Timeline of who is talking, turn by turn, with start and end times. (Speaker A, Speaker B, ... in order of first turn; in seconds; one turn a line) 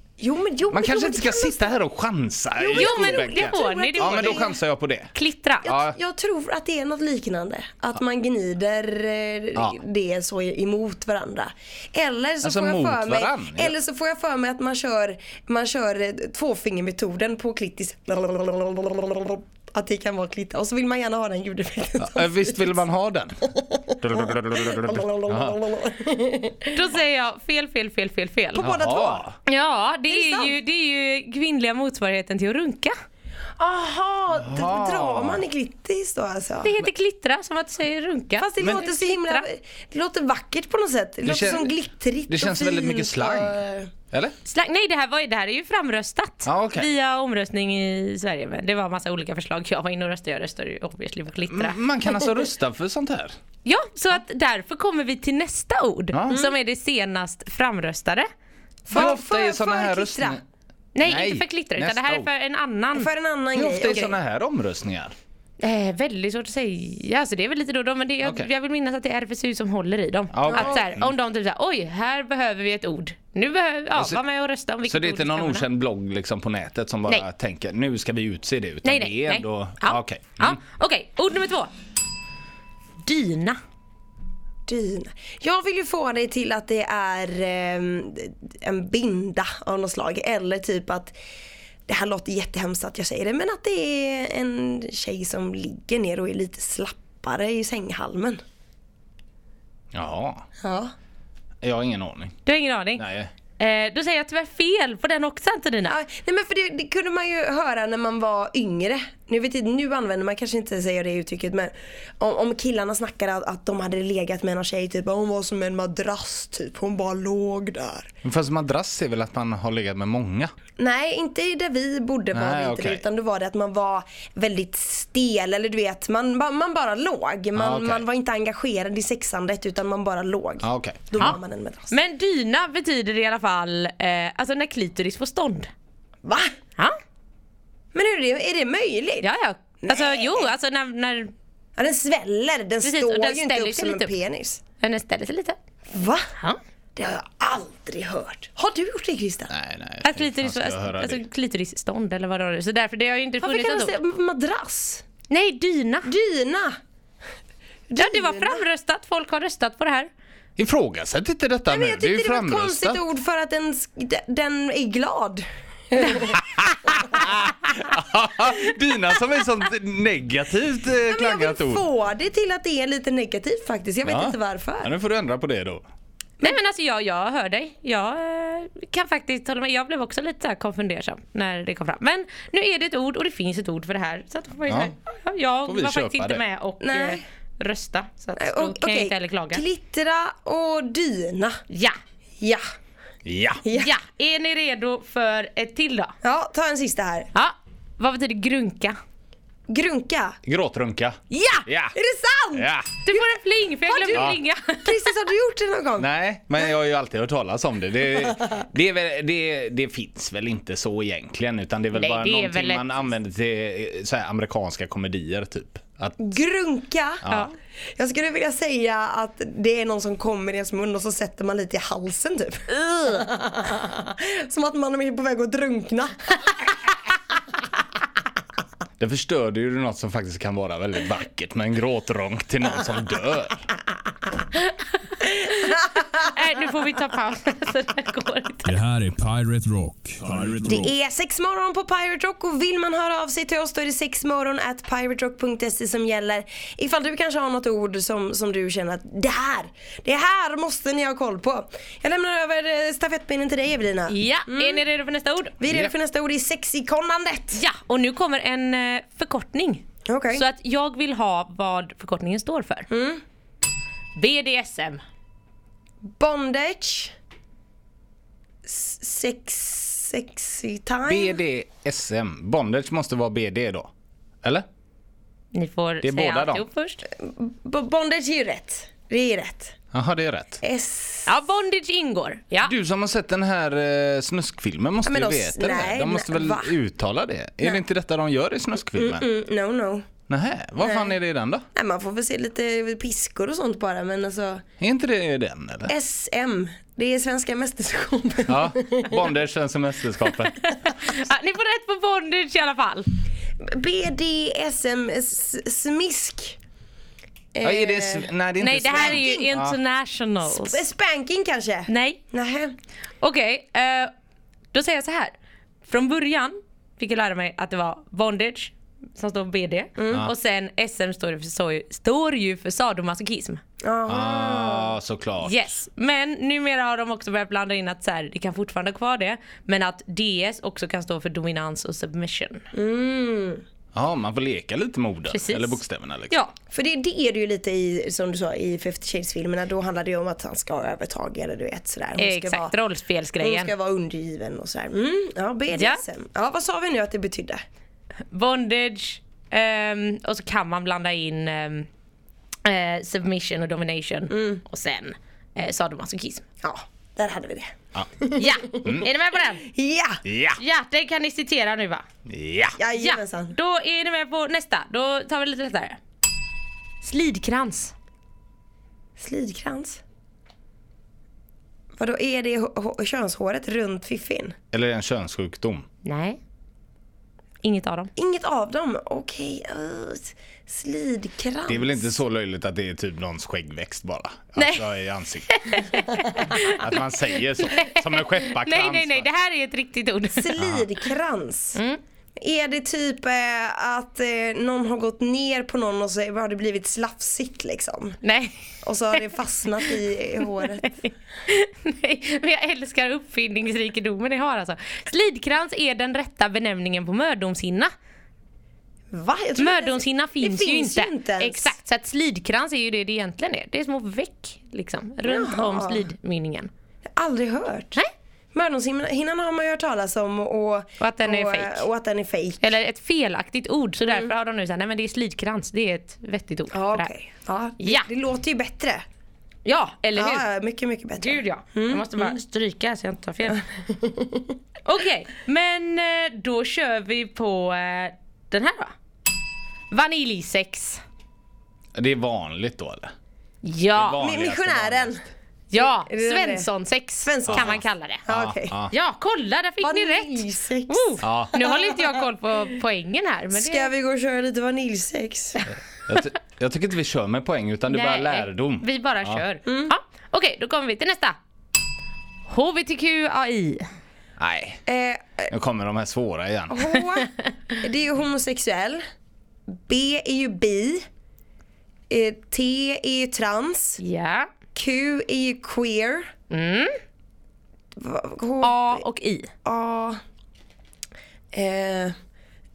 Speaker A: 0.2-1.8
Speaker B: 0.7-5.1
Speaker A: 2.6-4.6
Speaker C: 2.7-4.5
Speaker C: 5.1-5.7
Speaker B: 5.6-6.0
Speaker A: 5.6-22.8
Speaker B: 12.4-13.8
Speaker B: 22.0-23.4
Speaker A: 23.4-26.8
Speaker B: 24.0-25.6
Speaker C: 26.8-28.7
Speaker A: 28.5-29.2
Speaker B: 28.6-29.4
Speaker C: 29.4-32.9
Speaker A: 30.1-30.6
Speaker A: 33.6-36.8
Speaker B: 34.3-35.4
Speaker C: 36.6-39.5
Speaker A: 38.4-43.9
Speaker B: 38.6-38.9
Speaker B: 41.2-41.8
Speaker B: 42.3-43.6
Speaker C: 44.4-51.8
Speaker B: 46.4-46.9
Speaker B: 51.5-53.4
Speaker C: 53.6-58.3
Speaker B: 56.1-56.4
Speaker A: 56.3-56.6
Speaker A: 58.9-60.4
Speaker B: 58.9-60.4
Speaker C: 60.9-63.1
Speaker B: 61.0-62.3
Speaker A: 62.9-64.1
Speaker B: 63.5-65.1
Speaker C: 65.6-75.7
Speaker B: 68.2-68.5
Speaker B: 70.3-71.1
Speaker A: 70.5-70.8
Speaker B: 73.9-74.2
Speaker B: 74.8-80.6
Speaker C: 78.8-81.7
Speaker C: 83.0-83.6
Speaker A: 84.7-91.1
Speaker A: 91.9-98.4
Speaker B: 99.9-100.5
Speaker A: 100.6-100.9
Speaker B: 101.6-102.4
Speaker C: 102.5-103.0
Speaker B: 103.0-103.3
Speaker C: 103.6-106.0
Speaker A: 105.9-118.1
Speaker B: 118.2-120.5
Speaker A: 120.8-131.9
Speaker B: 122.3-123.0
Speaker B: 127.5-128.0
Speaker B: 130.6-131.4
Speaker C: 131.9-135.7
Speaker A: 136.2-136.5
Speaker A: 137.9-139.2
Speaker C: 139.2-141.3
Speaker A: 139.8-140.5
Speaker A: 141.8-144.6
Speaker C: 142.8-144.1
Speaker C: 144.8-145.6
Speaker A: 145.9-146.3
Speaker A: 146.9-149.5
Speaker B: 149.5-151.2
Speaker C: 150.0-153.9
Speaker A: 153.4-155.0
Speaker C: 155.3-156.1
Speaker A: 156.0-156.8
Speaker A: 157.9-158.6
Speaker C: 158.0-160.1
Speaker B: 160.6-163.0
Speaker A: 161.7-166.4
Speaker B: 166.4-171.8
Speaker A: 171.1-174.9
Speaker B: 174.0-175.8
Speaker C: 176.4-189.6
Speaker B: 184.7-184.9
Speaker B: 185.7-186.4
Speaker A: 186.8-187.2
Speaker A: 188.4-191.6
Speaker C: 191.7-192.0
Speaker B: 193.2-193.6
Speaker A: 193.6-193.9
Speaker C: 193.7-196.1
Speaker A: 196.2-197.3
Speaker C: 197.3-199.0
Speaker A: 199.7-200.4
Speaker B: 200.4-201.9
Speaker C: 201.3-201.7
Speaker A: 201.9-203.3
Speaker B: 202.5-202.9
Speaker C: 203.0-205.0
Speaker A: 203.8-206.1
Speaker B: 204.1-204.4
Speaker B: 206.0-216.3
Speaker C: 211.9-212.9
Speaker A: 216.2-217.2
Speaker B: 217.2-217.5
Speaker C: 217.3-217.5
Speaker A: 218.0-226.4
Speaker B: 229.0-233.6
Speaker C: 235.2-238.7
Speaker A: 235.6-236.1
Speaker D: 238.6-240.9
Speaker A: 240.6-254.8
Speaker C: 254.1-255.6
Speaker A: 255.6-257.6
Speaker B: 255.7-255.9
Speaker C: 257.6-262.9
Speaker A: 260.1-260.4
Speaker A: 262.9-263.2
Speaker C: 264.2-265.0
Speaker A: 266.2-267.1
Speaker A: 268.6-271.4
Speaker B: 271.1-273.9
Speaker C: 275.5-277.1
Speaker B: 276.0-276.6
Speaker A: 277.1-279.8
Speaker B: 279.9-280.6
Speaker A: 280.6-281.3
Speaker C: 281.2-282.7
Speaker B: 282.6-289.3
Speaker A: 285.1-286.7
Speaker A: 289.0-290.1
Speaker B: 290.3-291.7
Speaker A: 290.8-291.1
Speaker A: 291.7-294.6
Speaker B: 294.8-295.9
Speaker A: 295.9-299.2
Speaker B: 298.5-300.6
Speaker C: 300.6-303.1
Speaker A: 303.6-306.6
Speaker A: 307.5-308.3
Speaker B: 307.6-309.8
Speaker C: 308.6-310.8
Speaker A: 308.9-309.4
Speaker A: 310.4-312.7
Speaker C: 311.9-312.2
Speaker C: 313.2-314.1
Speaker C: 314.7-315.3
Speaker C: 315.9-323.6
Speaker A: 320.0-320.3
Speaker A: 323.8-324.9
Speaker B: 324.1-325.8
Speaker C: 325.4-332.7
Speaker A: 332.7-333.6
Speaker B: 333.9-336.4
Speaker C: 335.3-335.8
Speaker A: 336.7-342.7
Speaker C: 342.2-343.7
Speaker A: 343.4-347.6
Speaker C: 345.7-346.0
Speaker C: 348.3-351.9
Speaker C: 352.6-356.4
Speaker A: 354.3-354.6
Speaker A: 356.6-359.0
Speaker C: 358.4-359.7
Speaker A: 359.6-360.2
Speaker B: 360.2-360.6
Speaker C: 360.6-362.1
Speaker B: 362.2-362.8
Speaker A: 362.8-363.6
Speaker C: 362.9-366.0
Speaker C: 367.0-367.9
Speaker A: 369.2-370.0
Speaker A: 371.9-374.6
Speaker B: 374.7-375.9
Speaker C: 376.0-376.4
Speaker C: 377.6-378.1
Speaker A: 378.2-382.1
Speaker B: 381.7-385.8
Speaker C: 384.6-384.9
Speaker C: 385.5-386.9
Speaker B: 386.6-389.2
Speaker C: 387.6-390.6
Speaker A: 390.3-391.8
Speaker B: 390.6-390.9
Speaker C: 391.7-392.0
Speaker A: 392.4-398.2
Speaker C: 398.2-398.6
Speaker A: 398.8-400.9
Speaker C: 400.8-407.9
Speaker A: 409.1-411.7
Speaker C: 409.6-416.7
Speaker A: 415.2-416.1
Speaker A: 417.1-418.0
Speaker A: 418.5-422.6
Speaker C: 421.0-421.9
Speaker C: 422.6-427.1
Speaker A: 426.7-429.0
Speaker C: 427.8-428.1
Speaker C: 429.6-430.4
Speaker A: 430.2-432.4
Speaker C: 431.2-433.6
Speaker A: 433.9-434.5
Speaker C: 434.8-438.9
Speaker C: 439.9-441.0
Speaker B: 441.9-443.1
Speaker C: 443.6-444.2
Speaker B: 443.9-445.2
Speaker A: 444.2-445.2
Speaker C: 445.7-448.2
Speaker A: 445.8-446.7
Speaker A: 447.2-448.8
Speaker B: 447.5-448.9
Speaker C: 448.9-453.9
Speaker A: 449.8-452.1
Speaker B: 451.2-451.6
Speaker A: 453.5-455.6
Speaker B: 456.1-459.4
Speaker C: 457.9-461.4
Speaker A: 459.7-459.9
Speaker C: 462.4-463.9
Speaker B: 464.4-464.8
Speaker A: 464.9-465.5
Speaker B: 465.5-466.9
Speaker A: 466.7-469.0
Speaker A: 469.7-471.1
Speaker A: 472.1-474.0
Speaker C: 474.0-474.5
Speaker A: 474.7-476.3
Speaker C: 476.5-476.9
Speaker A: 477.9-479.0
Speaker C: 478.6-479.5
Speaker A: 479.6-480.2
Speaker A: 481.5-482.2